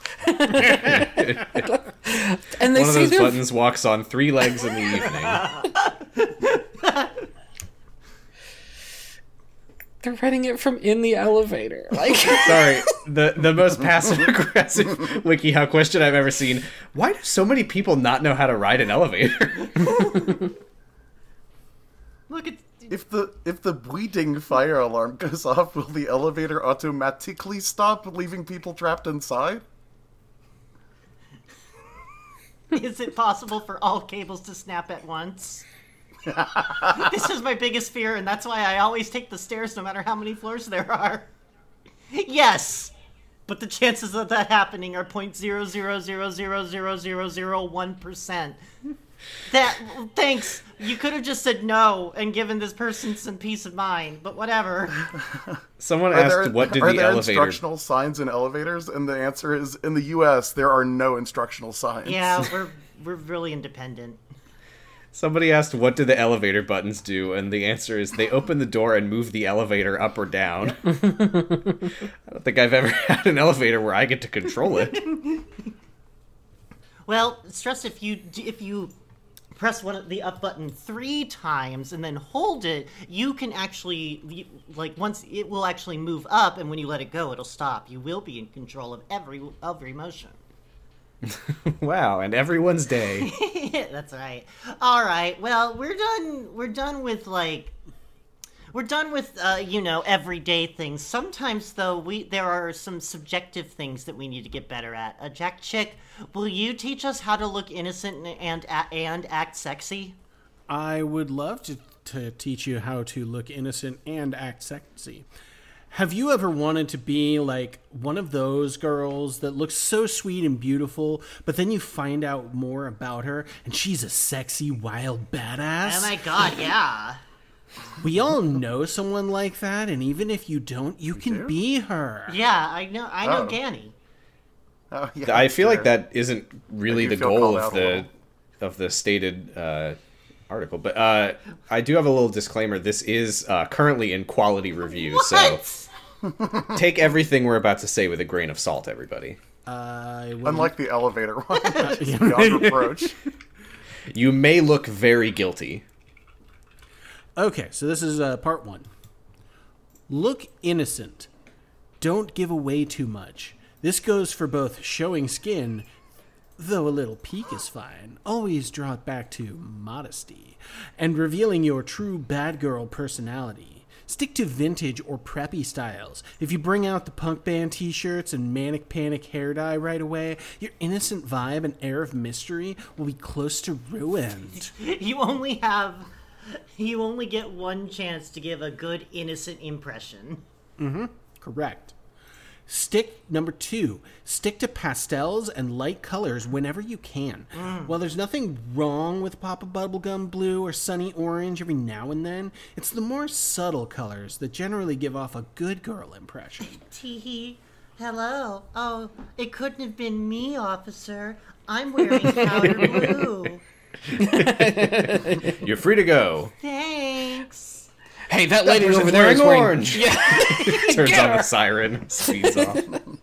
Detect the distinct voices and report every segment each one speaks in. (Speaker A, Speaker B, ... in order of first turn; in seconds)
Speaker A: 0.2-3.4, 10.0-12.8, 71.3-71.5, 212.6-213.0, 214.2-215.6, 218.3-221.5, 222.2-222.8
Speaker B: 0.7-1.7, 2.7-5.5, 12.3-20.4, 55.8-57.6, 65.1-71.2, 72.3-75.1, 91.2-93.3, 135.3-138.1, 138.6-140.0, 140.5-145.6, 146.7-149.4, 154.1-155.8, 214.2-216.5, 218.6-222.9
Speaker C: 5.3-7.2, 20.0-20.3, 22.3-22.9, 32.7-35.6, 36.7-41.3, 42.1-42.9, 43.5-48.6, 49.5-55.1, 62.0-64.2, 75.1-75.5, 77.1-78.9, 79.5-90.4, 93.2-97.8, 98.7-110.2, 125.8-127.2, 132.3-133.9, 144.9-145.9, 151.7-151.9, 184.6-190.4, 197.5-198.0, 206.7-213.6, 216.6-217.9
Speaker D: 22.9-29.6, 56.1-62.5, 131.1-131.6, 133.2-133.6, 134.9-135.9, 136.9-138.1, 146.4-146.7, 150.4-153.1
Speaker E: 110.7-115.3, 115.9-126.2, 128.0-132.4, 149.7-150.7, 151.8-153.1, 157.3-158.9, 160.1-161.3, 162.0-165.9, 166.6-184.7, 190.8-191.9, 192.7-206.8